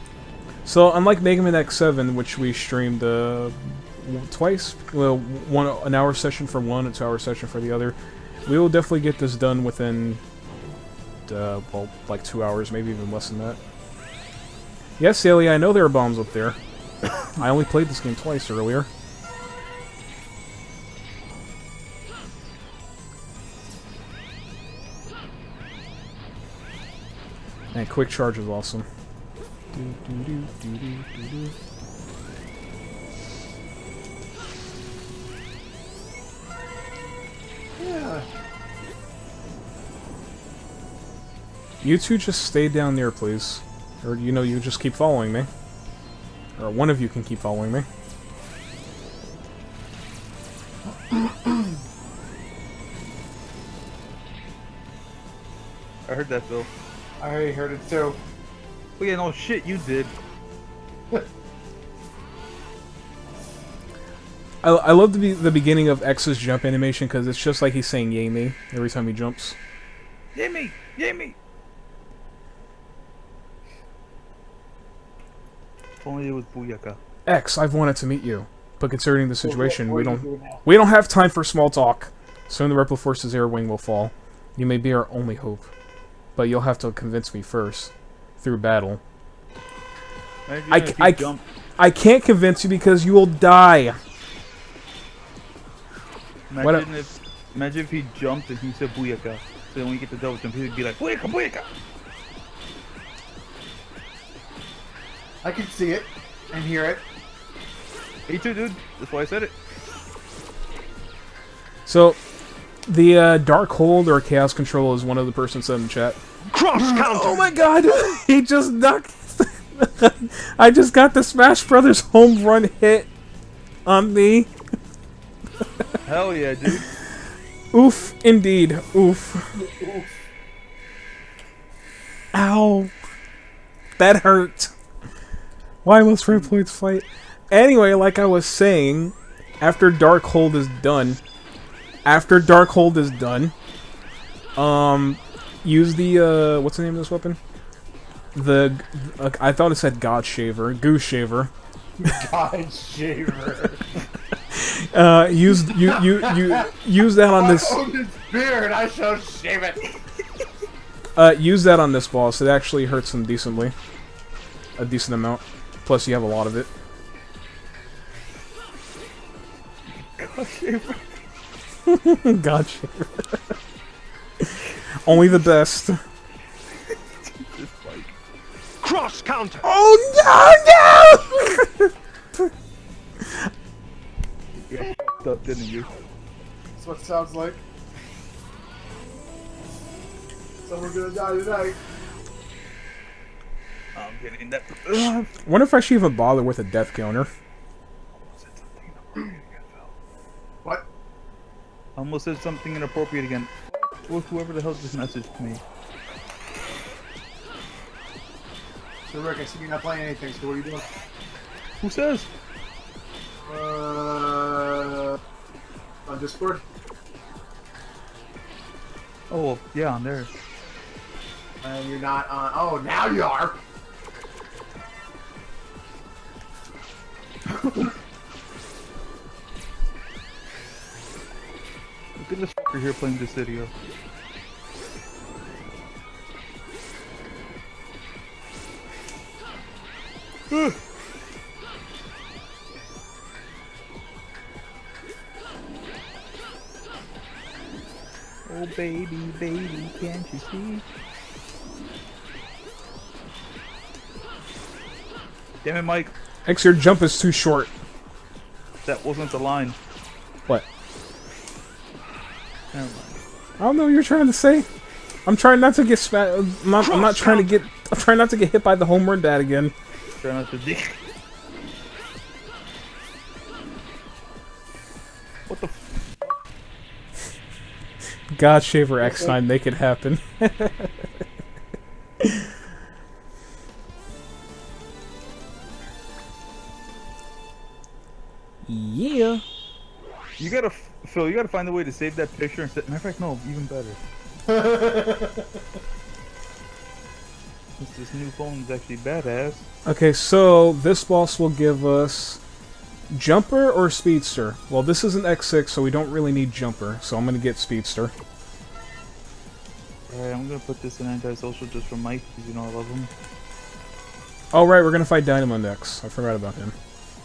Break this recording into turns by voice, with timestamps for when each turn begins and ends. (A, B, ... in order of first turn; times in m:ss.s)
0:00.6-0:10.2 A
0:11.3-0:13.6 A
0:15.0-0:16.6 A
0:17.3-0:18.9 A
0:27.7-0:28.9 A
0:29.7-0:31.5 A
0:37.8-0:38.3 B
0:41.8-0:45.5 A
0:46.6-0:47.9 A
0:50.8-0:51.8 B
0:56.1-0:56.7 C
0:57.2-0:58.2 B
0:59.0-1:00.2 C
1:04.6-1:09.6 A
1:10.4-1:11.4 C
1:16.0-1:17.0 C
1:17.3-1:25.7 A
1:19.4-1:20.7 B
1:26.4-1:29.0 A
1:30.5-1:31.4 C
1:30.7-1:34.0 A
1:36.5-1:41.7 C
1:36.6-1:36.8 A
1:45.4-1:47.0 B
1:48.3-1:49.5 C
1:51.9-1:52.2 A
1:52.9-1:56.2 A
1:56.4-1:57.5 D
1:57.0-2:03.1 A
2:03.9-2:04.5 A
2:06.1-2:06.9 C
2:07.7-2:09.6 A
2:09.6-2:10.1 B
2:12.3-2:12.9 A
2:14.0-2:14.7 A
2:15.8-2:21.2 A
2:22.0-2:23.5 A
2:24.6-2:27.4 A
2:28.3-2:31.5 A
2:32.0-2:33.8 B
2:34.5-2:37.8 A
2:35.8-2:36.7 B
2:37.3-2:39.9 B
2:41.2-2:43.7 A
2:44.8-2:46.7 A
2:50.2-2:51.2 C
2:51.9-2:53.4 A
2:54.4-2:56.0 A
2:57.2-2:58.1 C
2:58.8-2:59.6 D
2:59.6-3:01.9 A
3:03.2-3:03.5 A
3:04.7-3:05.9 C
3:06.8-3:07.6 B
3:10.6-3:11.8 B
3:14.0-3:15.3 C
3:14.9-3:17.3 A
3:18.1-3:19.9 C
3:22.0-3:25.6 C
3:29.1-3:30.9 B
3:31.8-3:32.3 C
3:33.4-3:35.2 B
3:36.1-3:36.6 B
3:39.3-3:40.3 C
3:41.6-3:43.6 B
3:52.2-3:53.7 C
4:00.5-4:00.8 C
4:08.5-4:10.8 C
4:15.6-4:16.1 C
4:16.5-4:17.7 A
4:18.8-4:19.8 C
4:22.7-4:23.2 C
4:23.6-4:24.7 A
4:25.3-4:29.7 A
4:26.8-4:27.5 D
4:30.2-4:31.0 C
4:35.5-4:36.4 C
4:38.4-4:41.1 A
4:42.2-4:42.5 A
4:48.7-4:49.4 A
4:50.4-4:54.0 C
4:54.5-4:55.6 B
4:57.8-4:59.7 C
4:59.8-5:02.4 A
5:03.1-5:08.1 A
5:10.1-5:13.1 C
5:14.5-5:16.8 A